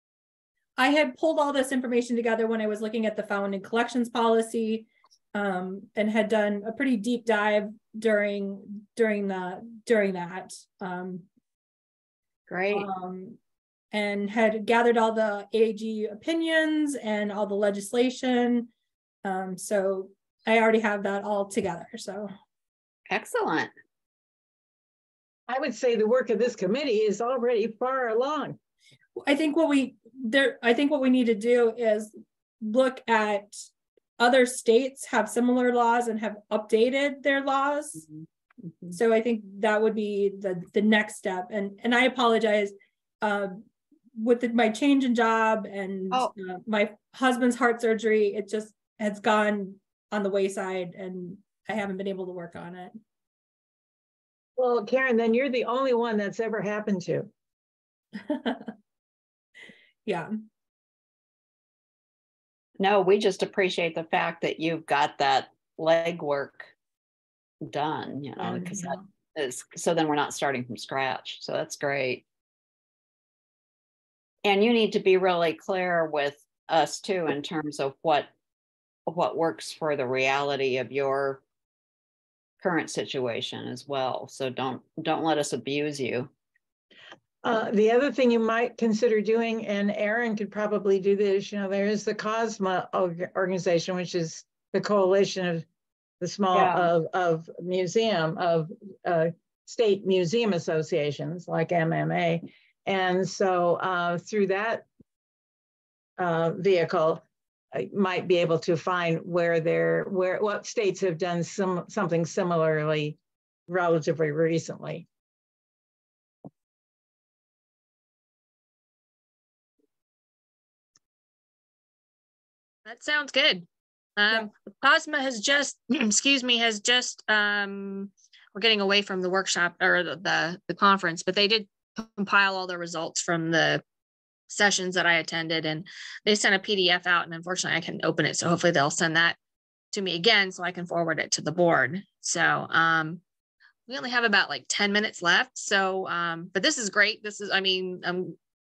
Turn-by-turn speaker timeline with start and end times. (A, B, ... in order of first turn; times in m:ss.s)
0:00.8-0:11.3 A
0:12.5-0:12.9 B
0:12.7-0:13.4 A
0:13.9-0:18.7 A
0:19.2-0:22.3 A
0:23.1-0:23.7 B
0:25.5-0:28.6 C
0:29.2-0:33.6 A
0:34.2-0:38.0 A
0:38.9-0:43.6 A
0:44.2-0:53.0 A
0:54.6-0:57.3 C
0:58.2-0:58.7 A
1:00.0-1:00.3 A
1:02.8-1:06.7 B
1:07.6-1:12.2 B
1:08.5-1:09.0 A
1:14.4-1:18.3 B
1:19.1-1:21.4 B
1:22.6-1:26.3 B
1:27.4-1:35.6 C
1:36.2-1:44.8 C
1:36.5-1:36.9 B
1:46.2-1:55.0 C
2:02.8-2:03.6 D
2:04.2-2:13.8 D
2:14.5-2:19.4 D
2:19.9-2:23.2 D
2:23.9-2:28.4 D